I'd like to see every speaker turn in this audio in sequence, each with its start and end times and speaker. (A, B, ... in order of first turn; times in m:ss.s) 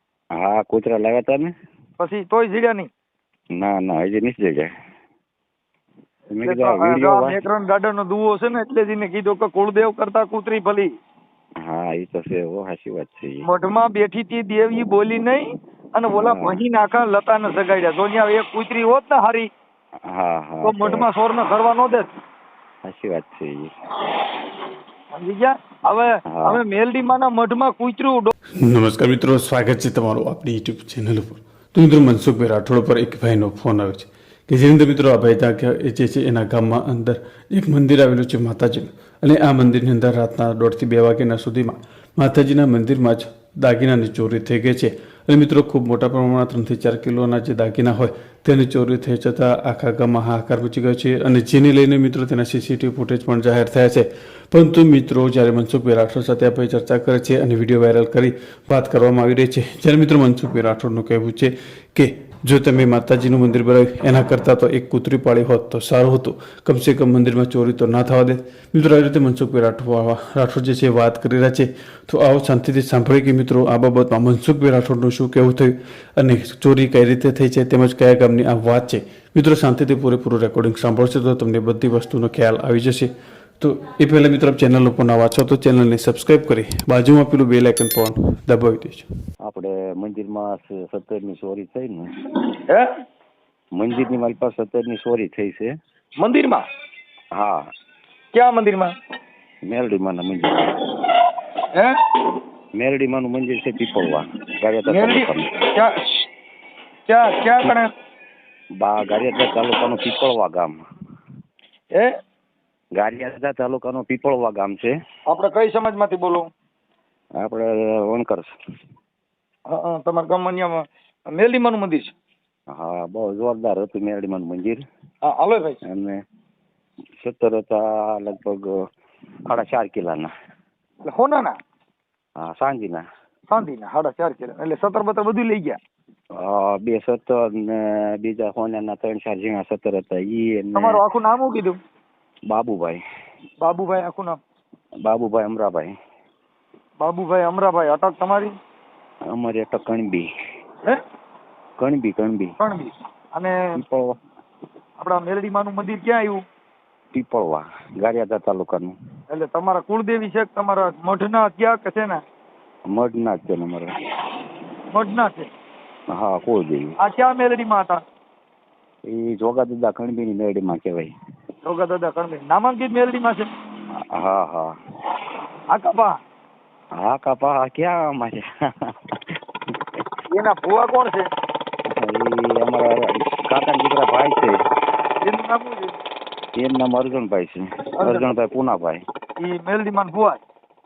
0:00.3-0:01.5 A
0:02.0-0:02.9 B
0:03.5-0:04.7 A
0:06.3-0:07.4 A
0:06.4-0:10.9 B
0:11.6-0:13.5 A
0:13.4-0:19.5 B
0:16.1-0:16.6 A
0:20.0-0:21.1 A
0:20.6-0:22.1 B
0:22.8-0:23.7 A
0:25.2-0:28.3 B
0:26.3-0:26.6 A
0:28.6-1:29.1 C
1:29.4-1:32.1 A
1:32.5-1:32.9 B
1:33.7-1:35.8 A
1:36.2-1:36.6 B
1:37.3-1:37.7 A
1:38.3-1:38.9 B
1:39.6-1:40.7 A
1:42.8-1:45.5 A
1:44.9-1:46.2 B
1:47.1-1:47.9 B
1:48.8-1:50.8 A
1:53.0-1:54.9 A
1:55.3-1:56.5 B
1:57.4-1:58.6 A
1:59.7-2:02.1 B
2:02.7-2:04.8 A
2:05.2-2:05.8 B
2:05.8-2:06.2 A
2:07.2-2:08.9 A
2:09.5-2:10.3 A
2:11.0-2:11.5 B
2:12.4-2:13.0 A
2:13.5-2:15.8 B
2:16.3-2:21.0 A
2:20.8-2:21.8 B
2:22.5-2:23.0 A
2:23.6-2:24.4 B
2:25.0-2:25.9 A
2:27.0-2:28.6 B
2:29.3-2:30.3 A
2:31.8-2:32.6 A
2:32.6-2:33.8 B
2:33.8-2:34.2 A
2:35.0-2:36.4 B
2:37.1-2:39.0 A
2:39.3-2:42.2 B
2:42.9-2:44.0 A
2:44.9-2:45.5 B
2:46.1-2:47.0 A
2:47.0-2:48.0 B
2:49.0-2:51.1 A
2:51.6-2:53.5 B
2:53.9-2:54.7 A
2:55.7-2:56.2 B
2:56.9-3:00.0 A
3:00.3-3:01.3 B
3:01.9-3:04.6 A
3:05.2-3:05.9 B
3:06.6-3:09.0 A
3:08.0-3:08.3 B
3:09.4-3:10.4 B